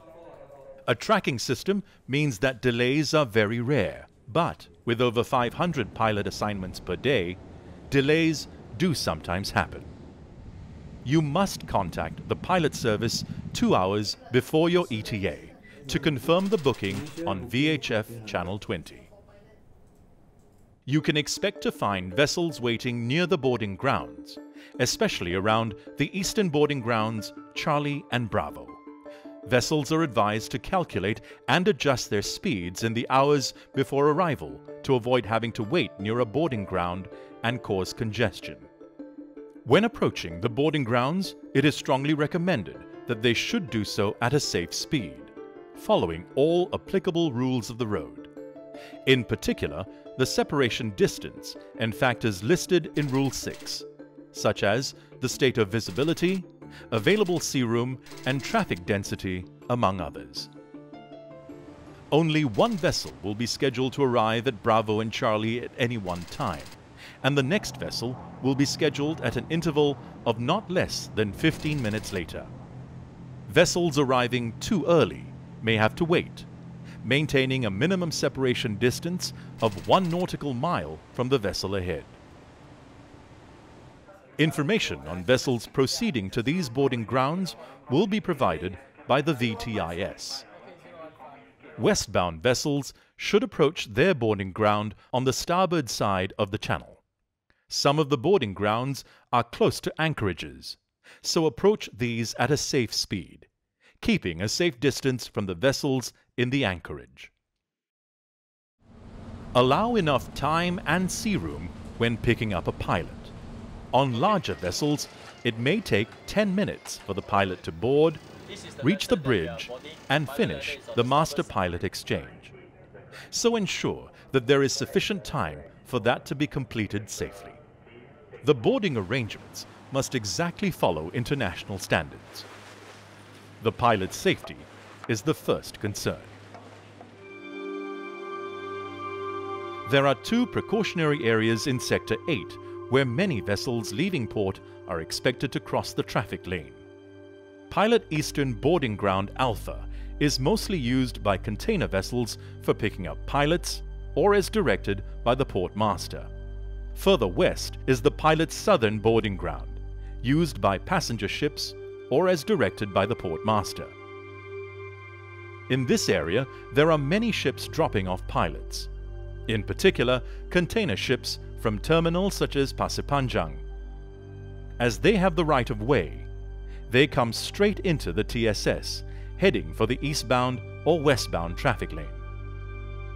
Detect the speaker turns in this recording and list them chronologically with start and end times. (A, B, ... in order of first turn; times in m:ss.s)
0:00.9-0:09.9 A
0:11.0-0:19.1 A
0:20.8-0:28.8 A
0:29.4-0:38.7 A
0:39.6-0:48.3 A
0:49.0-1:00.5 A
1:02.1-1:12.5 A
1:13.5-1:16.5 A
1:17.0-1:22.2 A
1:24.4-1:30.4 A
1:31.8-1:37.0 A
1:37.7-1:43.5 A
1:44.0-1:47.3 A
1:49.5-1:53.3 A
1:53.9-2:02.5 A
2:03.3-2:07.6 A
2:08.4-2:12.5 A
2:13.6-2:16.4 A
2:19.8-2:26.8 A
2:27.7-2:36.3 A
2:36.9-2:43.9 A
2:45.7-2:48.9 A
2:49.5-2:53.6 A
2:54.8-2:56.3 A
2:56.9-3:02.2 A